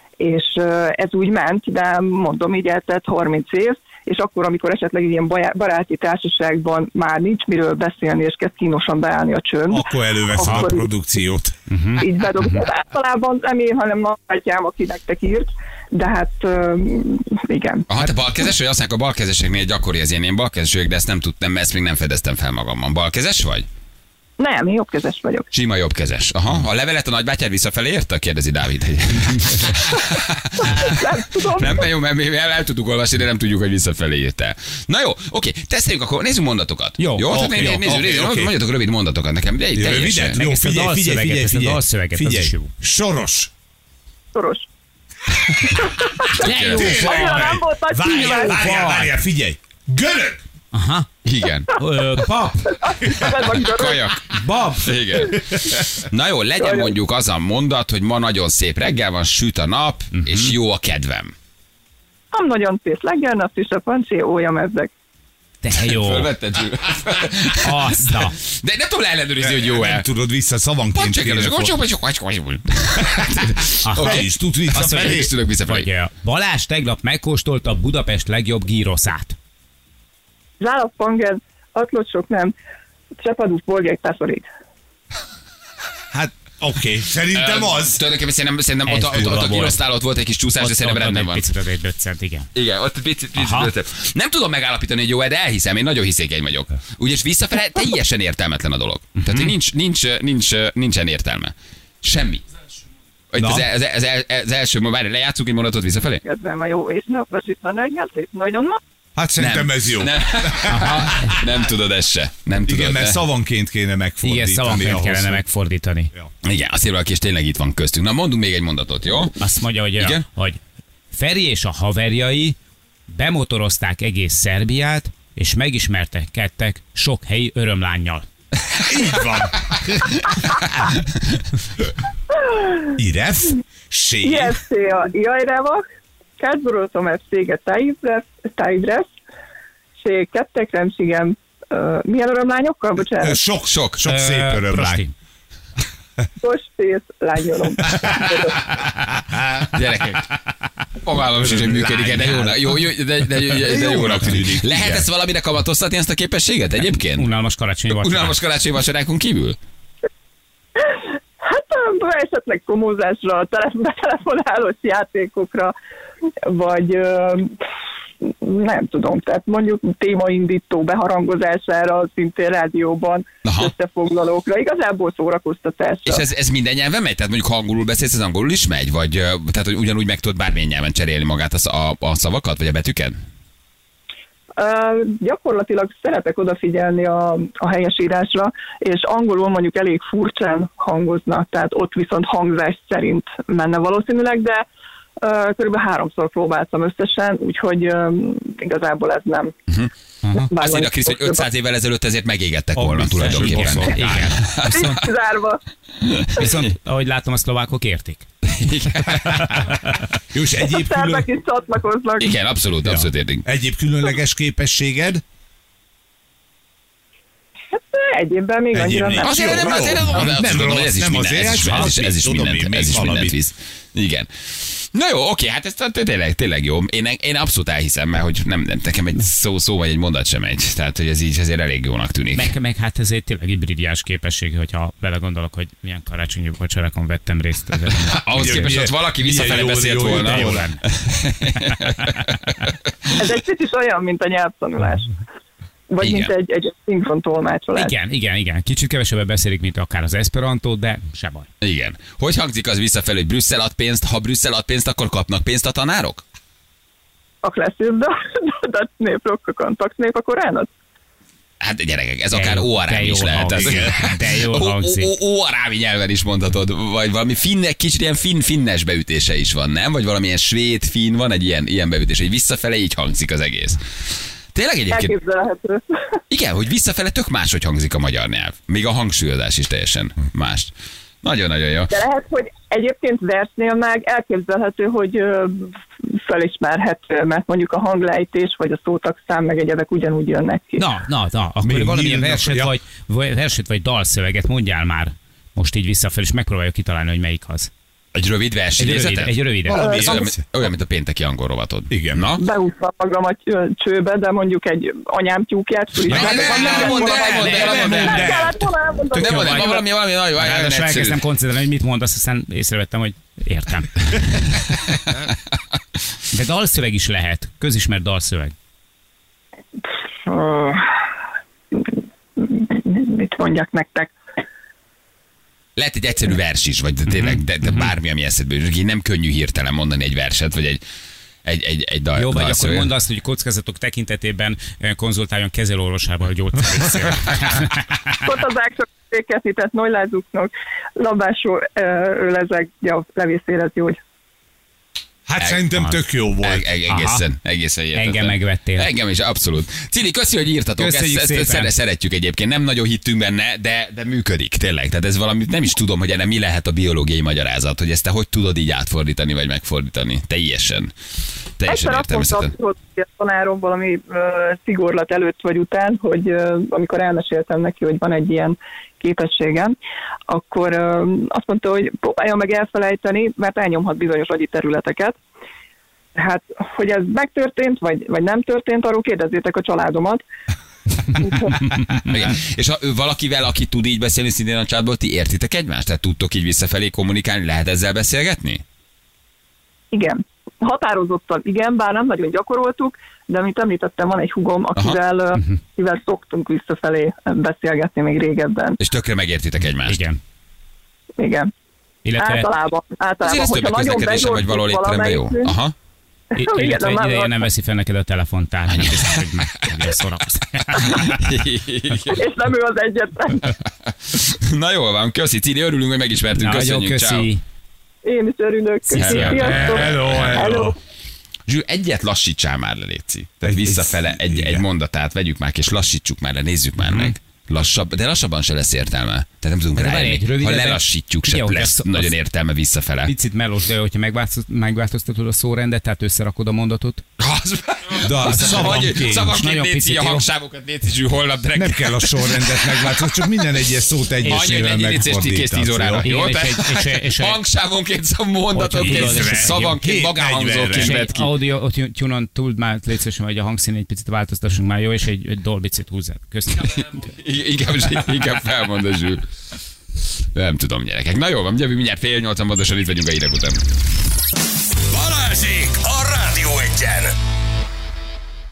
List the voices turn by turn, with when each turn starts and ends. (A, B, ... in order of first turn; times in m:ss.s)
0:00.2-0:10.9 A
0:09.7-0:11.5 B
0:11.7-0:12.0 C
0:12.0-0:17.8 A
0:17.9-0:23.7 D
0:24.4-0:25.4 A
0:25.5-0:40.4 D
0:30.6-0:31.9 A
0:37.1-0:38.5 B
0:39.7-0:43.5 B
0:40.3-0:42.7 C
0:44.3-0:44.7 A
0:45.5-0:47.0 D
0:45.8-0:48.6 A
0:46.3-0:47.5 C
0:46.6-0:50.4 B
0:48.2-0:49.1 C
0:50.7-0:51.1 C
0:51.2-0:52.3 D
0:51.8-0:52.7 C
0:52.6-0:54.1 A
0:53.0-1:01.3 D
0:54.4-0:54.9 C
0:55.2-0:55.8 B
0:56.6-0:56.9 A
1:00.1-1:00.5 C
1:02.3-1:04.9 A
1:05.6-1:06.3 C
1:05.8-1:10.1 D
1:07.6-1:08.4 C
1:09.4-1:11.8 B
1:10.9-1:15.9 D
1:13.1-1:13.4 B
1:13.8-1:19.4 C
1:14.0-1:15.3 B
1:20.6-1:22.5 A
1:23.2-1:24.5 A
1:26.1-1:28.0 B
1:27.3-1:31.5 D
1:28.9-1:29.8 C
1:29.1-1:29.8 B
1:30.6-1:32.5 C
1:32.5-1:42.4 D
1:33.4-1:33.7 C
1:39.2-1:39.5 C
1:43.3-1:46.2 D
1:43.4-1:43.7 B
1:46.2-1:48.8 A
1:49.2-1:51.4 B
1:49.4-1:53.2 D
1:50.7-1:51.4 C
1:52.6-1:55.4 B
1:54.2-1:56.1 C
1:56.4-1:59.4 D
1:59.4-2:00.6 C
2:00.0-2:00.2 D
2:01.1-2:02.6 C
2:03.1-2:08.2 C
2:08.8-2:10.9 B
2:12.3-2:12.9 A
2:12.9-2:14.6 B
2:14.2-2:15.8 A
2:16.4-2:19.1 A
2:20.0-2:23.4 A
2:23.2-2:25.0 B
2:23.7-2:24.0 D
2:24.0-2:25.1 C
2:26.4-2:28.7 A
2:27.9-2:28.1 B
2:29.3-2:29.6 B
2:29.6-2:30.3 D
2:31.0-2:37.3 D
2:31.6-2:32.8 C
2:33.6-2:35.0 B
2:37.2-2:38.3 C
2:37.9-2:39.6 D
2:40.8-2:45.7 A
2:46.4-2:47.6 A
2:48.2-2:56.2 A
2:53.4-2:53.7 D
2:56.0-3:03.2 D
3:04.6-3:14.6 A
3:15.2-3:19.5 A
3:20.2-3:20.5 C
3:20.5-3:21.4 A
3:20.5-3:24.9 D
3:22.7-3:24.4 B
3:23.2-3:25.0 C
3:24.7-3:25.6 A
3:26.1-3:26.5 D
3:26.4-3:28.2 C
3:28.5-3:29.6 D
3:29.1-3:30.0 C
3:30.3-3:31.3 B
3:30.6-3:32.4 A
3:32.2-3:33.4 D
3:32.8-3:35.2 B
3:37.8-3:40.0 A
3:38.7-3:43.4 B
3:39.2-3:52.5 D
3:52.3-3:58.7 C
3:58.1-4:03.1 D
3:58.3-4:00.6 B
4:00.0-4:00.8 C
4:03.2-4:05.2 A
4:05.9-4:07.9 A
4:06.0-4:06.3 D
4:07.7-4:11.5 C
4:11.6-4:16.2 D
4:17.4-4:20.7 A
4:21.6-4:35.1 D
4:22.3-4:25.1 C
4:23.5-4:24.0 B
4:34.9-4:36.2 A
4:36.3-4:40.7 D
4:41.2-4:41.9 D
4:41.9-4:50.8 A
4:50.8-4:57.7 C
4:51.6-4:52.7 B
4:58.1-5:02.4 D
4:58.8-4:59.8 C
4:58.8-5:00.4 B
4:59.8-5:00.2 A
5:01.9-5:02.4 B
5:02.4-5:09.8 A
5:06.0-5:08.5 D
5:06.1-5:08.6 B
5:06.2-5:08.3 C
5:09.1-5:09.8 C
5:09.1-5:11.2 D
5:10.4-5:14.2 C
5:14.9-5:15.2 D
5:16.3-5:18.5 C
5:20.2-5:20.9 A
5:21.7-5:24.1 A
5:25.8-5:30.8 D
5:27.1-5:27.9 C
5:31.4-5:32.9 D
5:32.1-5:38.2 C
5:38.2-5:44.0 A
5:45.2-5:46.7 B
5:46.4-6:00.9 D
5:46.9-5:47.2 C
5:47.9-5:48.9 C
5:50.8-5:51.7 C
6:01.6-6:02.5 D
6:01.7-6:09.8 A
6:10.3-6:15.2 A
6:16.2-6:20.2 A
6:21.0-6:21.8 A
6:22.0-6:28.6 D
6:29.9-6:38.8 A
6:38.8-6:40.0 D
6:39.8-6:40.2 C
6:41.2-6:41.5 A
6:42.0-6:42.5 C
6:42.2-6:45.5 A
6:43.2-6:45.7 D
6:46.4-6:51.3 C
6:46.4-6:47.4 A
6:48.7-6:49.2 D
6:50.7-6:52.2 D
6:52.1-6:53.5 A
6:53.7-6:57.3 D
6:56.4-6:57.4 C
6:58.0-7:00.7 A
6:58.9-6:59.9 C
6:59.0-7:00.6 D
6:59.5-7:00.7 B
7:01.5-7:13.1 D
7:03.4-7:04.6 B
7:06.8-7:07.1 C
7:09.7-7:12.1 C
7:13.1-7:17.0 C
7:17.2-7:23.4 D
7:18.0-7:19.4 B
7:18.3-7:20.2 C
7:21.5-7:26.1 B
7:24.2-7:31.3 D
7:26.0-7:27.4 C
7:28.5-7:29.7 C
7:28.8-7:31.1 B
7:30.7-7:36.8 C
7:36.6-7:39.2 D
7:40.3-7:43.6 D
7:44.9-7:47.1 E